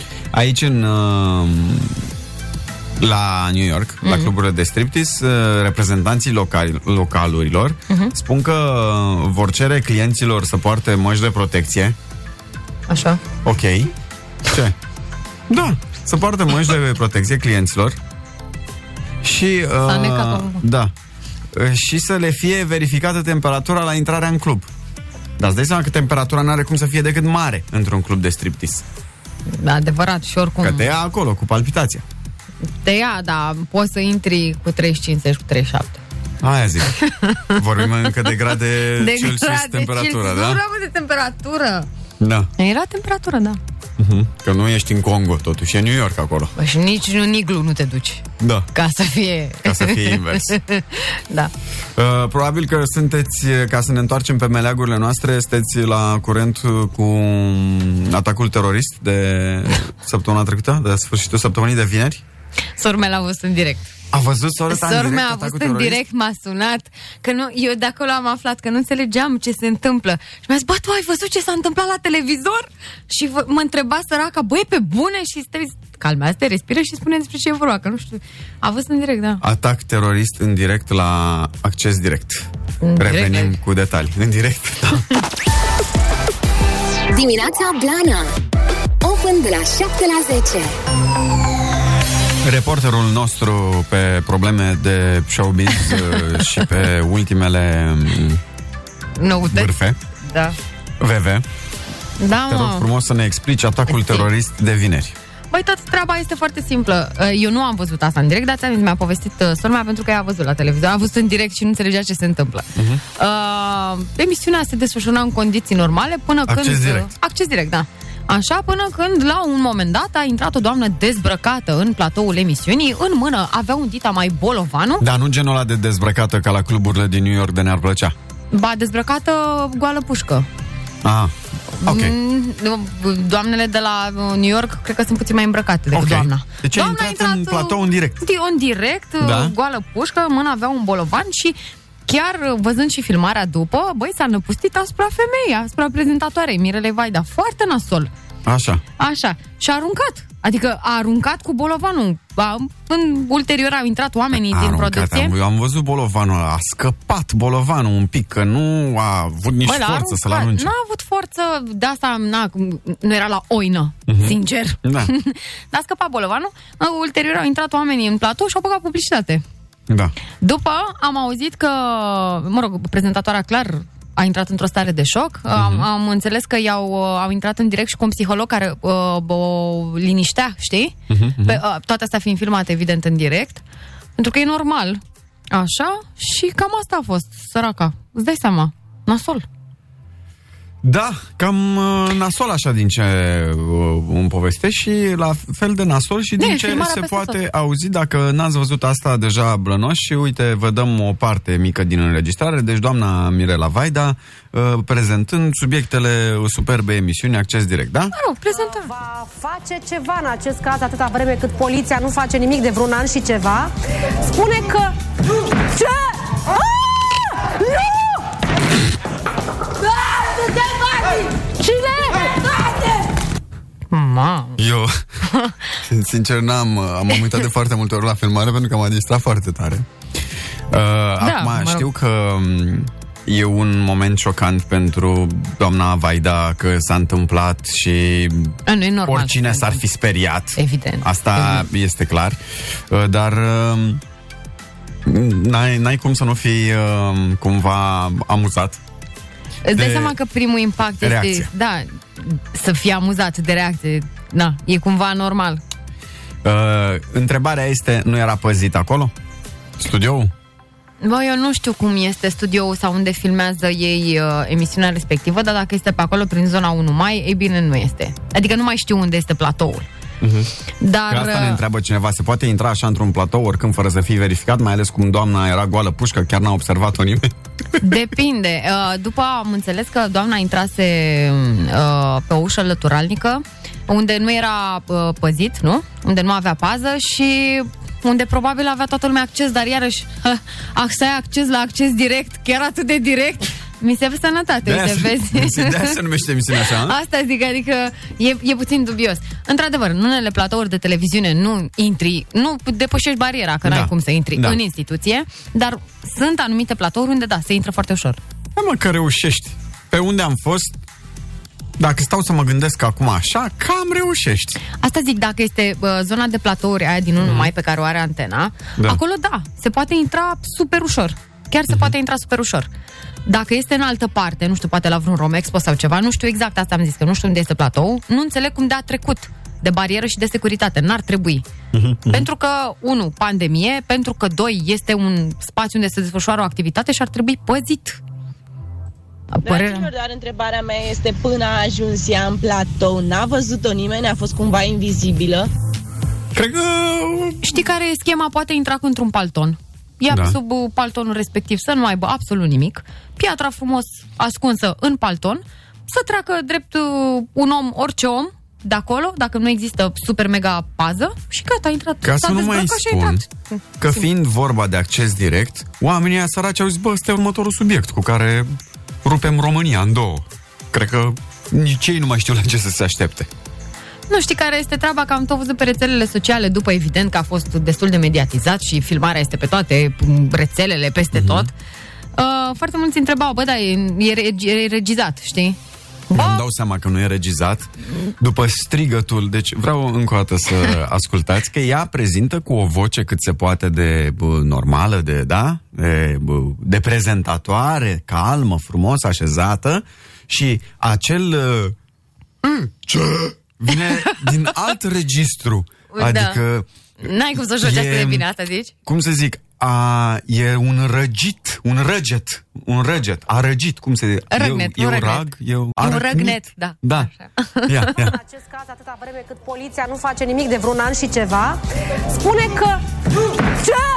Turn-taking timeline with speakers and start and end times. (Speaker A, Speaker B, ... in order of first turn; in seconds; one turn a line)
Speaker A: 0.3-2.0
Speaker A: 3.0-12.0
Speaker B: 4.0-4.3
Speaker B: 12.9-13.2
Speaker A: 13.4-13.9
Speaker A: 14.5-14.7
Speaker A: 15.5-18.0
Speaker A: 19.2-20.9
Speaker B: 19.8-20.6
Speaker A: 21.5-24.7
Speaker A: 25.4-28.8
Speaker B: 29.5-30.9
Speaker A: 30.6-32.0
Speaker B: 32.8-36.0
Speaker A: 36.4-37.0
Speaker B: 37.0-37.6
Speaker A: 37.5-40.6
Speaker B: 39.0-41.9
Speaker A: 42.2-42.5
Speaker B: 42.6-43.6
Speaker A: 44.0-46.5
Speaker B: 46.6-51.5
Speaker A: 48.4-48.7
Speaker A: 49.6-50.6
Speaker A: 52.0-62.2
Speaker B: 62.8-63.9
Speaker A: 64.1-66.0
Speaker B: 64.7-79.4
Speaker A: 79.4-85.1
Speaker B: 82.8-83.6
Speaker C: 87.1-88.3
Speaker C: 89.0-90.8
Speaker A: 92.4-98.4
Speaker B: 99.2-99.7
Speaker A: 99.5-100.0
Speaker B: 100.2-100.6
Speaker A: 101.0-101.4
Speaker B: 102.2-102.9
Speaker A: 102.5-105.1
Speaker B: 103.9-104.3
Speaker B: 105.5-125.0
Speaker A: 112.8-113.0
Speaker A: 116.5-117.1
Speaker A: 125.0-128.1
Speaker B: 128.5-130.5
Speaker A: 131.0-131.3
Speaker B: 131.8-141.6
Speaker A: 131.8-132.2
Speaker A: 135.9-138.2
Speaker A: 139.2-139.5
Speaker B: 142.1-148.1
Speaker A: 148.4-148.8
Speaker B: 149.0-155.3
Speaker A: 154.3-160.7
Speaker B: 159.6-169.4
Speaker A: 164.1-165.1
Speaker A: 169.9-170.1
Speaker B: 170.4-183.6
Speaker A: 175.5-175.9
Speaker A: 181.1-181.6
Speaker B: 184.2-189.4
Speaker A: 190.8-208.1
Speaker B: 196.4-197.4
Speaker B: 208.1-208.9
Speaker D: 208.5-215.0
Speaker E: 220.2-221.2
Speaker B: 223.9-224.6
Speaker A: 224.6-225.0
Speaker B: 225.2-225.6
Speaker A: 225.8-229.9
Speaker A: 230.7-244.0
Speaker B: 231.2-231.9
Speaker B: 238.7-239.8
Speaker B: 240.6-241.7
Speaker A: 245.0-248.8
Speaker B: 249.6-255.6
Speaker A: 249.7-250.2
Speaker A: 251.0-251.5
Speaker A: 256.4-259.1
Speaker A: 259.8-260.3
Speaker B: 261.0-269.9
Speaker A: 270.2-270.5
Speaker B: 270.8-271.6
Speaker A: 271.1-277.3
Speaker B: 277.8-296.0
Speaker A: 294.6-297.0
Speaker B: 296.8-308.2
Speaker A: 303.6-304.6
Speaker A: 308.5-310.7
Speaker A: 311.8-314.6
Speaker B: 314.7-322.7
Speaker A: 317.2-317.5
Speaker A: 321.7-321.9
Speaker B: 323.2-331.4
Speaker A: 331.7-332.2
Speaker B: 332.1-338.0
Speaker B: 339.3-339.9
Speaker E: 339.4-345.5
Speaker A: 346.3-347.6
Speaker B: 347.4-364.1
Speaker A: 350.1-350.4
Speaker A: 362.0-363.2
Speaker A: 363.8-368.5
Speaker A: 369.0-373.3
Speaker B: 374.1-381.5
Speaker A: 381.1-381.5
Speaker B: 382.1-385.6
Speaker B: 386.1-386.4
Speaker A: 386.1-401.8
Speaker A: 402.4-406.7
Speaker B: 405.9-406.4
Speaker B: 407.0-408.7
Speaker A: 407.6-408.2
Speaker A: 408.8-417.1
Speaker B: 414.3-418.0
Speaker A: 417.7-418.2
Speaker D: 418.0-422.8